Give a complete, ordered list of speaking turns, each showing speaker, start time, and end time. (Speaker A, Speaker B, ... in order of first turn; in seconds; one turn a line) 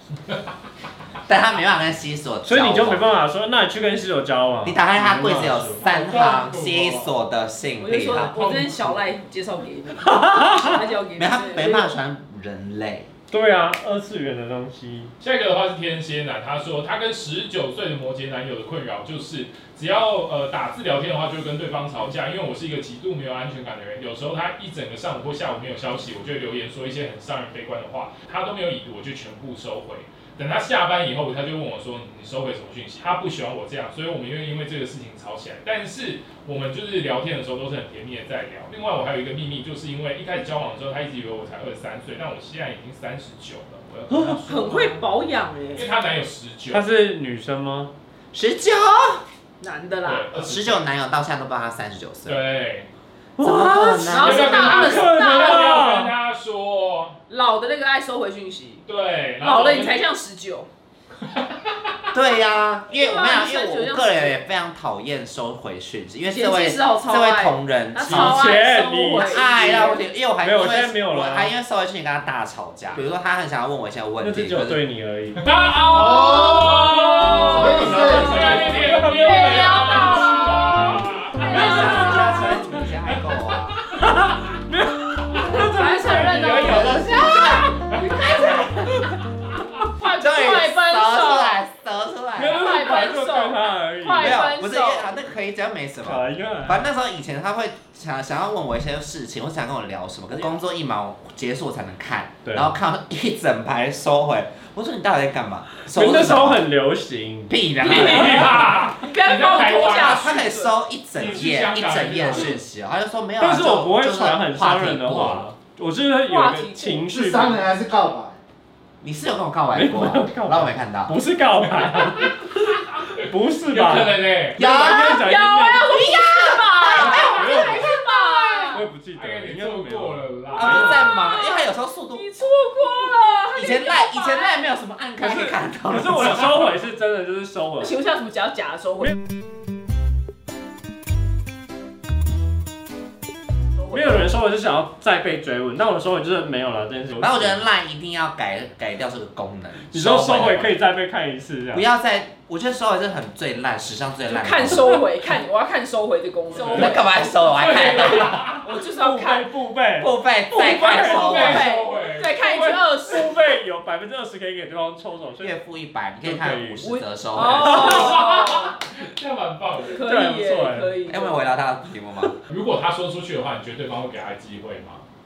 Speaker A: 1.3-3.2
Speaker B: 2.4-5.8
Speaker A: 4.6-8.4
Speaker C: 5.8-6.4
Speaker D: 5.8-7.1
Speaker C: 7.8-11.9
Speaker D: 8.4-8.9
Speaker B: 10.0-10.7
Speaker A: 11.2-13.1
Speaker B: 13.3-15.1
Speaker D: 15.2-45.0
Speaker C: 44.5-45.9
Speaker D: 45.7-46.9
Speaker B: 46.7-47.9
Speaker A: 48.3-49.2
Speaker C: 49.6-50.3
Speaker D: 50.0-50.9
Speaker A: 50.3-52.4
Speaker D: 52.2-52.9
Speaker B: 53.4-56.1
Speaker A: 53.4-54.9
Speaker C: 54.1-55.8
Speaker D: 54.1-57.2
Speaker C: 57.3-58.8
Speaker D: 58.9-60.1
Speaker C: 59.4-60.7
Speaker D: 61.3-61.9
Speaker A: 62.1-68.5
Speaker C: 62.9-64.4
Speaker C: 66.2-70.0
Speaker B: 68.0-69.4
Speaker A: 69.1-74.8
Speaker B: 70.4-71.5
Speaker B: 74.2-75.4
Speaker D: 75.3-81.9
Speaker E: 76.0-76.6
Speaker C: 76.8-82.5
Speaker E: 77.5-78.3
Speaker B: 77.8-80.2
Speaker A: 81.5-83.8
Speaker D: 83.1-84.5
Speaker B: 84.0-87.5
Speaker C: 85.5-89.2
Speaker D: 86.3-86.6
Speaker A: 86.5-87.7
Speaker D: 87.8-88.4
Speaker C: 89.8-91.6
Speaker A: 90.2-92.7
Speaker B: 92.3-94.5
Speaker C: 92.5-95.1
Speaker A: 94.2-106.6
Speaker B: 96.0-96.9
Speaker B: 102.4-102.8
Speaker B: 105.9-107.5
Speaker A: 107.5-108.6
Speaker D: 107.8-110.3
Speaker C: 107.8-110.7
Speaker A: 109.8-115.5
Speaker D: 111.1-112.6
Speaker B: 113.4-117.7
Speaker C: 116.2-117.1
Speaker E: 117.1-118.4
Speaker A: 119.0-121.2
Speaker B: 119.7-126.1
Speaker D: 121.8-124.6
Speaker A: 124.6-128.7
Speaker C: 124.9-128.8
Speaker B: 127.1-128.0
Speaker B: 128.7-130.2
Speaker D: 129.1-131.1
Speaker A: 130.5-132.3
Speaker C: 130.8-134.5
Speaker A: 133.5-136.7
Speaker B: 135.2-137.9
Speaker C: 137.8-139.2
Speaker C: 143.8-144.3
Speaker B: 143.9-147.6
Speaker A: 147.1-150.7
Speaker B: 149.9-151.9
Speaker D: 150.2-150.6
Speaker A: 151.7-155.0
Speaker C: 154.3-157.0
Speaker D: 156.6-156.9
Speaker A: 156.6-158.5
Speaker D: 157.5-158.7
Speaker C: 158.6-159.5
Speaker B: 158.9-160.1
Speaker A: 160.0-161.7
Speaker C: 160.5-163.4
Speaker B: 160.8-161.6
Speaker D: 161.0-162.3
Speaker B: 162.4-165.6
Speaker A: 165.4-168.1
Speaker B: 166.2-166.8
Speaker C: 166.8-168.7
Speaker D: 167.4-170.0
Speaker C: 169.9-171.4
Speaker B: 170.0-171.0
Speaker A: 171.1-172.4
Speaker D: 172.5-175.0